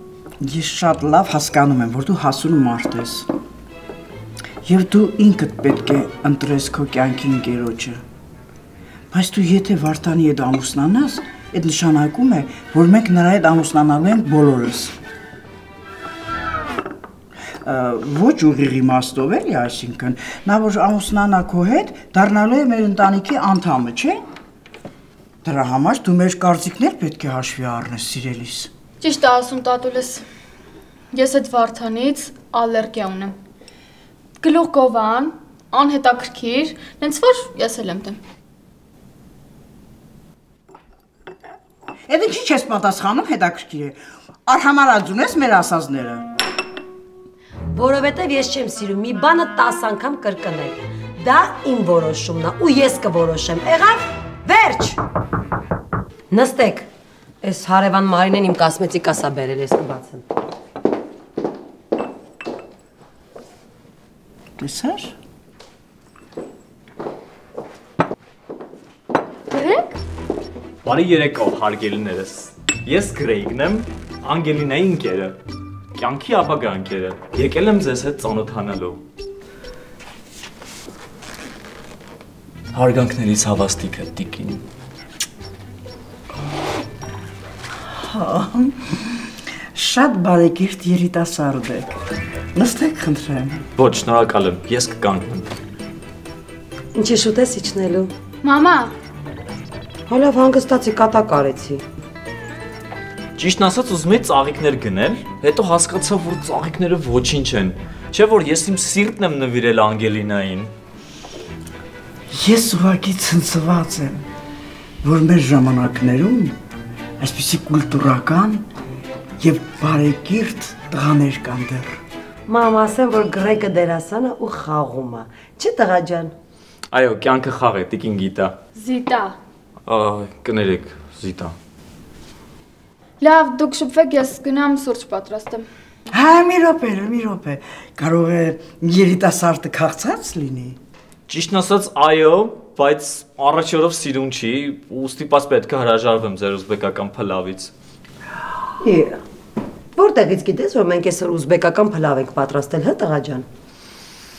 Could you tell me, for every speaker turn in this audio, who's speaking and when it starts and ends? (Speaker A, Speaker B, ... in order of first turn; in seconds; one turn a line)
Speaker A: 0.4-3.3
Speaker A: 4.6-8.0
Speaker A: 9.1-15.0
Speaker A: 17.6-24.2
Speaker A: 25.4-28.7
Speaker B: 29.0-30.2
Speaker B: 31.1-33.4
Speaker B: 34.4-38.2
Speaker A: 42.1-46.3
Speaker C: 47.7-55.0
Speaker C: 56.3-56.9
Speaker C: 57.4-60.2
Speaker A: 64.6-65.2
Speaker B: 69.5-69.8
Speaker D: 70.8-75.4
Speaker D: 76.0-79.0
Speaker D: 82.7-84.6
Speaker A: 88.0-89.1
Speaker A: 89.8-91.9
Speaker A: 92.5-93.7
Speaker D: 93.8-95.5
Speaker C: 97.0-98.1
Speaker B: 98.4-98.9
Speaker C: 100.1-101.8
Speaker D: 103.4-110.7
Speaker A: 112.3-114.2
Speaker A: 115.0-116.6
Speaker A: 117.2-118.7
Speaker A: 119.4-122.0
Speaker C: 122.5-126.3
Speaker D: 126.9-128.6
Speaker B: 128.8-129.4
Speaker D: 129.9-131.6
Speaker B: 133.2-135.7
Speaker A: 136.1-140.8
Speaker D: 141.3-147.7
Speaker C: 148.8-149.2
Speaker C: 150.0-153.5